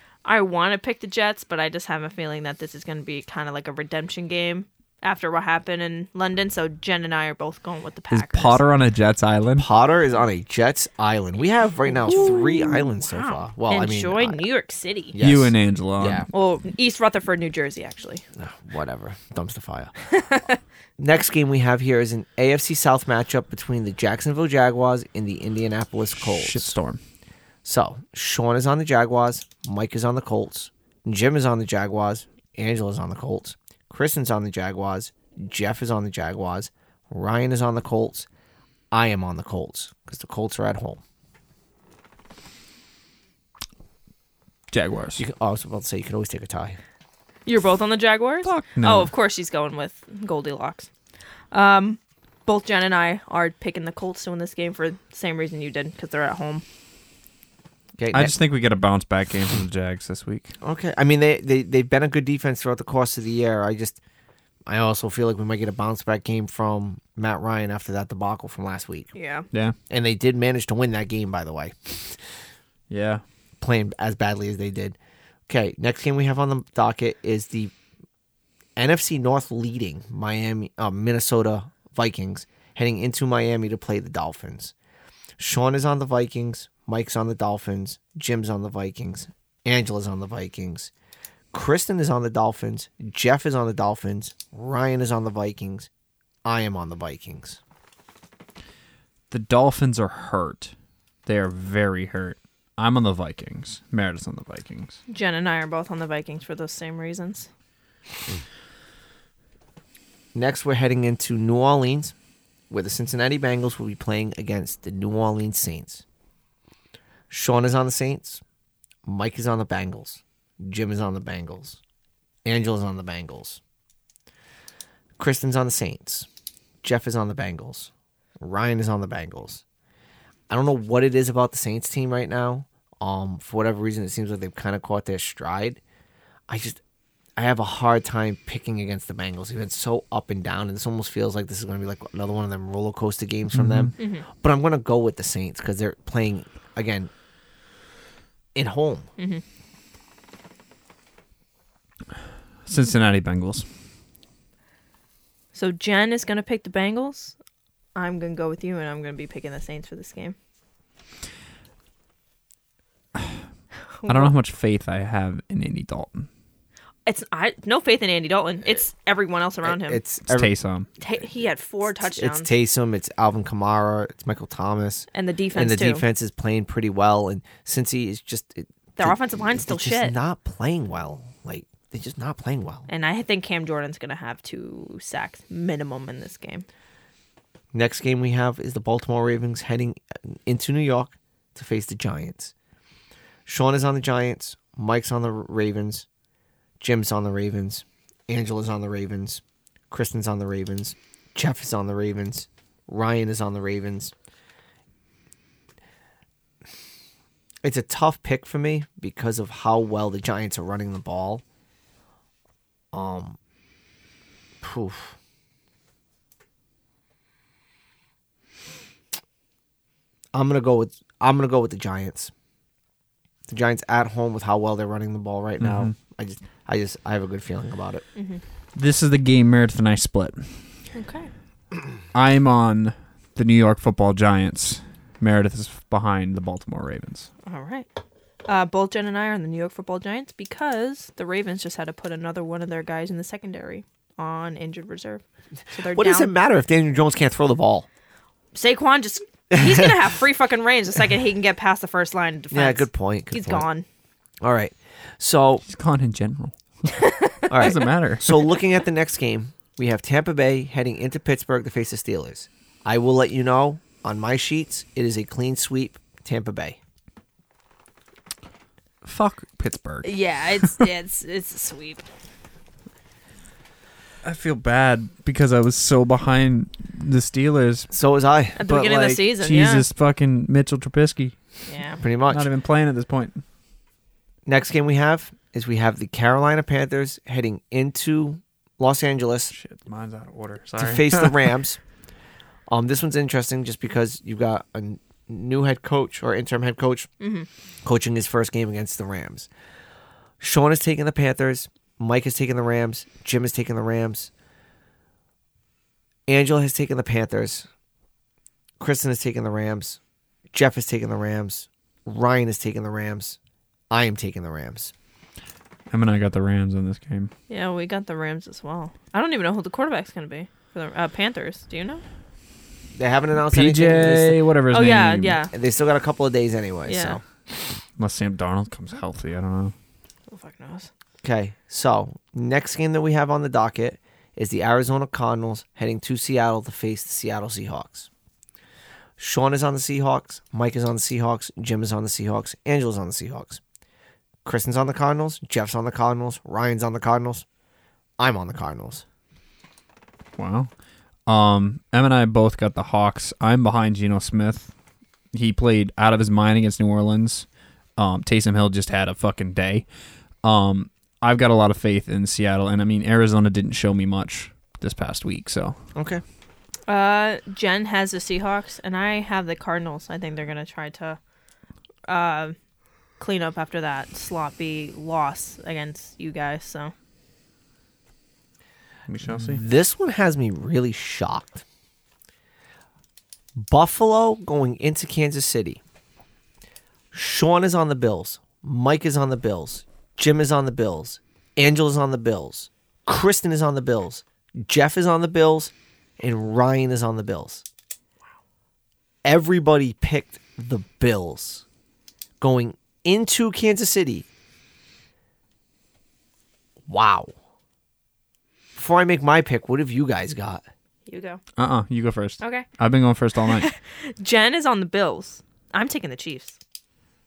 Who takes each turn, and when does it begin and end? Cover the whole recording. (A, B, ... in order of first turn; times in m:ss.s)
0:00.2-0:08.6 A
0:08.1-0:09.7 B
0:09.6-0:14.4 C
0:11.8-0:15.1 A
0:15.1-0:16.3 C
0:15.2-0:16.2 B
0:16.3-0:18.2 A
0:18.4-0:19.9 C
0:20.1-0:20.6 A
0:21.0-0:26.7 C
0:26.2-0:27.0 B
0:27.6-0:38.3 C
0:38.9-0:41.0 C
0:44.7-0:45.2 B
0:45.2-0:46.8 C
0:47.4-0:50.9 A
0:48.4-0:49.1 B
0:51.5-0:56.6 A
0:58.0-0:58.3 C
0:58.1-1:00.5 B
1:00.6-1:04.0 C
1:04.7-1:09.1 C
1:09.1-1:09.4 A
1:09.9-1:12.2 C
1:12.9-1:13.2 B
1:13.6-1:15.0 C
1:15.5-1:17.7 C
1:18.8-1:24.7 C
1:25.4-1:30.9 C
1:31.5-1:35.9 C
1:36.4-1:37.6 C
1:39.3-1:40.7 B
1:41.2-1:45.0 B
1:45.1-1:47.5 A
1:50.3-1:52.1 C
1:52.7-1:56.0 C
1:57.3-1:58.4 C
1:59.0-2:01.8 C
2:02.4-2:03.6 C
2:05.2-2:06.3 C
2:06.8-2:09.6 C
2:10.5-2:15.8 C
2:16.5-2:16.8 C
2:17.4-2:27.1 C
2:23.5-2:23.9 B
2:24.0-2:24.2 A
2:28.5-2:29.1 C
2:29.2-2:29.4 A
2:32.6-2:33.6 B
2:35.5-2:37.4 A
2:38.0-2:40.3 A
2:43.1-2:43.4 B
2:44.0-2:44.3 A
2:44.1-2:46.3 B
2:47.0-2:50.0 A
2:49.6-2:50.5 C
2:50.3-2:50.9 B
2:51.0-2:52.5 A
2:52.1-3:02.9 C
2:55.1-2:56.0 A
2:59.0-3:00.1 A
3:02.9-3:06.6 A
3:07.7-3:12.5 C
3:13.4-3:16.0 C
3:16.8-3:24.1 C
3:27.6-3:31.4 C
3:32.9-3:33.4 C
3:34.6-3:35.2 C
3:40.3-3:42.3 C
3:43.5-3:48.0 C
3:45.6-3:45.9 B
3:48.2-3:48.4 A
3:48.7-3:50.6 B
3:50.9-3:51.3 A
3:52.1-3:57.3 B
3:57.4-3:57.9 A
3:58.4-4:06.3 A
4:05.9-4:07.8 C
4:08.5-4:13.8 A
4:09.5-4:09.9 C
4:12.5-4:13.6 C
4:14.4-4:15.6 C
4:15.6-4:16.9 B
4:16.9-4:17.7 A
4:17.5-4:26.8 C
4:17.6-4:18.5 B
4:29.0-4:30.9 B
4:30.0-4:32.0 A
4:34.2-4:37.9 B
4:37.9-4:39.2 C
4:38.6-4:39.8 A
4:39.3-4:41.4 B
4:41.7-4:42.0 A
4:42.0-4:42.5 C
4:42.3-4:43.4 B
4:44.4-4:49.5 C
4:49.5-4:51.5 B
4:50.8-4:51.8 C
4:52.7-4:57.1 C
4:57.2-4:57.5 A
4:57.8-4:59.5 C
5:00.4-5:04.3 C
5:06.3-5:07.7 C
5:08.8-5:10.0 C
5:10.5-5:13.4 C
5:13.9-5:14.9 C
5:15.9-5:17.3 B
5:17.5-5:22.0 A
5:22.9-5:24.4 C
5:23.5-5:25.4 B
5:24.7-5:25.5 A
5:25.5-5:27.2 C
5:26.8-5:27.2 A
5:28.0-5:29.7 B
5:30.3-5:30.9 A
5:31.2-5:38.1 C
5:39.2-5:43.6 C
5:44.4-5:47.4 C
5:48.2-5:49.0 C
5:50.4-5:50.7 B
5:51.2-5:54.7 B
5:55.3-5:59.8 B
6:00.4-6:05.8 B
6:05.9-6:06.2 C
6:06.9-6:11.2 A
6:12.1-6:12.6 A
6:13.2-6:16.9 A
6:19.1-6:19.6 B
6:19.2-6:21.6 C
6:23.6-6:25.8 C
6:27.1-6:37.6 C
6:39.2-6:41.6 C
6:42.4-6:44.3 C
6:46.9-6:47.3 C
6:48.8-6:50.6 C
6:51.1-6:51.4 A
6:51.6-6:53.7 B
6:52.4-6:52.7 A
6:53.5-6:56.6 A